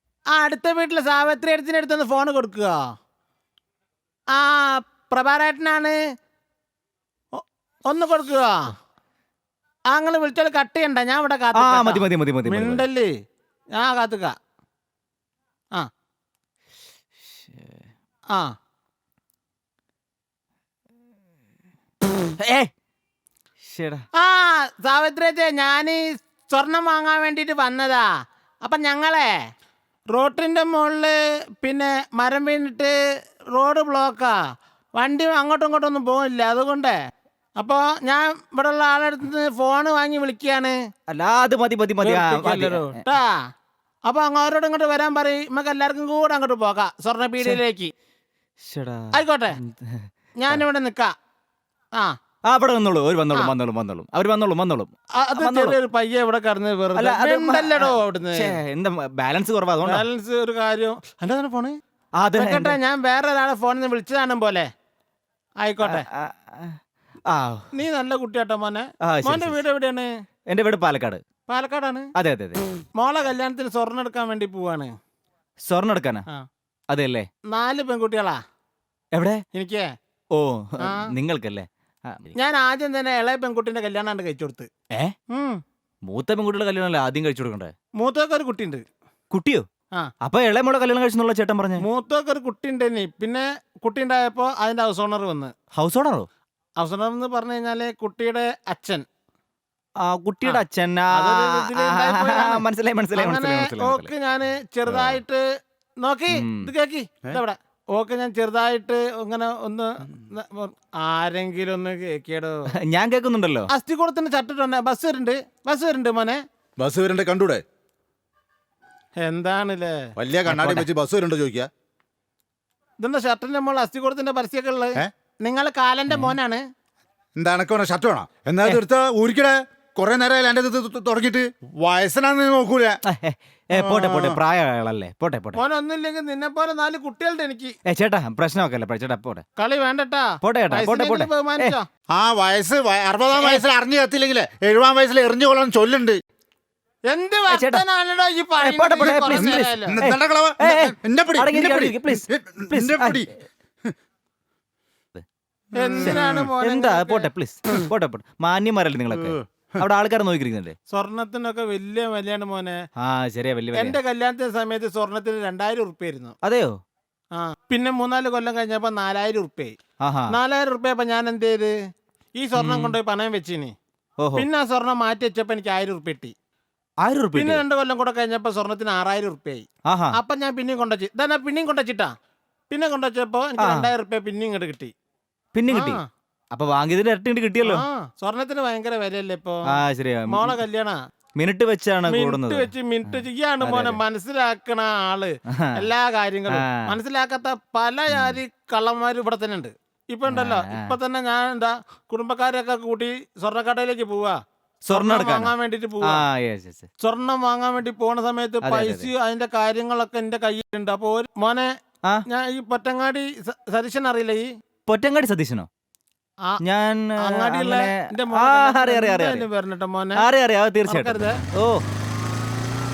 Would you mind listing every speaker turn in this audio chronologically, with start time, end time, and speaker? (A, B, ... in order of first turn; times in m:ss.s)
0:00.4-0:02.7 A
0:04.3-0:06.0 A
0:07.3-0:08.8 A
0:09.9-0:13.1 A
0:11.5-0:12.9 B
0:13.8-0:14.3 A
0:17.5-0:17.8 B
0:22.4-0:22.7 B
0:23.7-0:24.0 B
0:24.2-0:28.1 A
0:28.6-0:29.3 A
0:30.1-0:33.0 A
0:33.5-0:34.3 A
0:35.0-0:37.0 A
0:37.6-0:40.8 A
0:41.1-0:43.0 B
0:42.0-0:43.4 A
0:44.1-0:47.9 A
0:48.6-0:50.6 B
0:49.1-0:49.6 A
0:50.4-0:51.1 A
0:52.5-0:55.8 B
0:55.2-0:58.6 A
0:57.0-1:00.1 B
0:59.9-1:01.8 A
1:02.2-1:02.8 B
1:02.4-1:04.7 A
1:05.6-1:06.0 A
1:05.8-1:07.7 B
1:07.7-1:10.1 A
1:09.0-1:09.6 B
1:10.5-1:11.2 B
1:11.5-1:12.1 A
1:12.2-1:12.6 B
1:13.0-1:15.0 A
1:15.6-1:16.3 B
1:16.9-1:17.3 B
1:17.5-1:18.4 A
1:19.1-1:19.4 B
1:19.5-1:19.9 A
1:20.4-1:22.3 B
1:20.8-1:21.1 A
1:22.4-1:24.7 A
1:25.3-1:25.6 A
1:26.1-1:27.7 B
1:28.0-1:28.8 A
1:29.3-1:29.7 B
1:30.2-1:31.9 B
1:31.8-1:35.5 A
1:35.8-1:36.3 B
1:36.8-1:39.0 A
1:40.0-1:44.1 B
1:40.4-1:42.6 A
1:43.2-1:45.4 A
1:46.0-1:52.5 A
1:46.3-1:46.7 B
1:52.8-1:53.7 B
1:53.7-1:56.4 A
1:56.8-1:57.6 C
1:59.2-2:00.0 A
2:00.2-2:01.7 C
2:00.5-2:00.9 B
2:03.0-2:06.6 A
2:06.1-2:06.4 B
2:07.4-2:13.0 C
2:13.1-2:15.6 B
2:13.7-2:14.4 C
2:15.6-2:17.8 A
2:17.9-2:19.5 B
2:19.6-2:21.9 A
2:20.4-2:21.8 B
2:22.1-2:26.2 C
2:27.1-2:30.0 A
2:27.5-2:27.8 B
2:28.6-2:33.3 B
2:29.0-2:33.3 C
2:35.8-2:37.3 A
2:35.9-2:36.5 C
2:36.0-2:40.8 B
2:39.1-2:39.8 C
2:40.9-2:42.8 A
2:43.0-2:44.0 B
2:43.7-2:46.3 A
2:46.4-2:46.7 B
2:47.4-2:49.8 A
2:50.0-2:50.4 B
2:50.3-2:51.7 A
2:52.4-2:53.7 A
2:52.6-2:53.0 B
2:54.2-2:54.5 B
2:54.4-2:56.3 A
2:57.0-2:57.6 B
2:57.4-3:02.1 A
2:59.9-3:00.2 B
3:02.7-3:04.9 A
3:03.6-3:03.9 B
3:05.6-3:06.0 B
3:05.7-3:06.0 A
3:06.5-3:07.8 B
3:07.6-3:11.0 A
3:09.7-3:10.6 B
3:11.4-3:14.0 B
3:12.1-3:24.4 A
3:16.5-3:17.0 B
3:18.1-3:18.4 B
3:20.3-3:21.0 B
3:24.9-3:26.9 B
3:24.9-3:26.3 A
3:27.0-3:31.7 A
3:28.6-3:29.1 B
3:32.3-3:34.5 A
3:34.9-3:35.7 B
3:36.6-3:39.5 B
3:37.3-3:40.3 A
3:40.2-3:41.8 B
3:40.9-3:41.4 A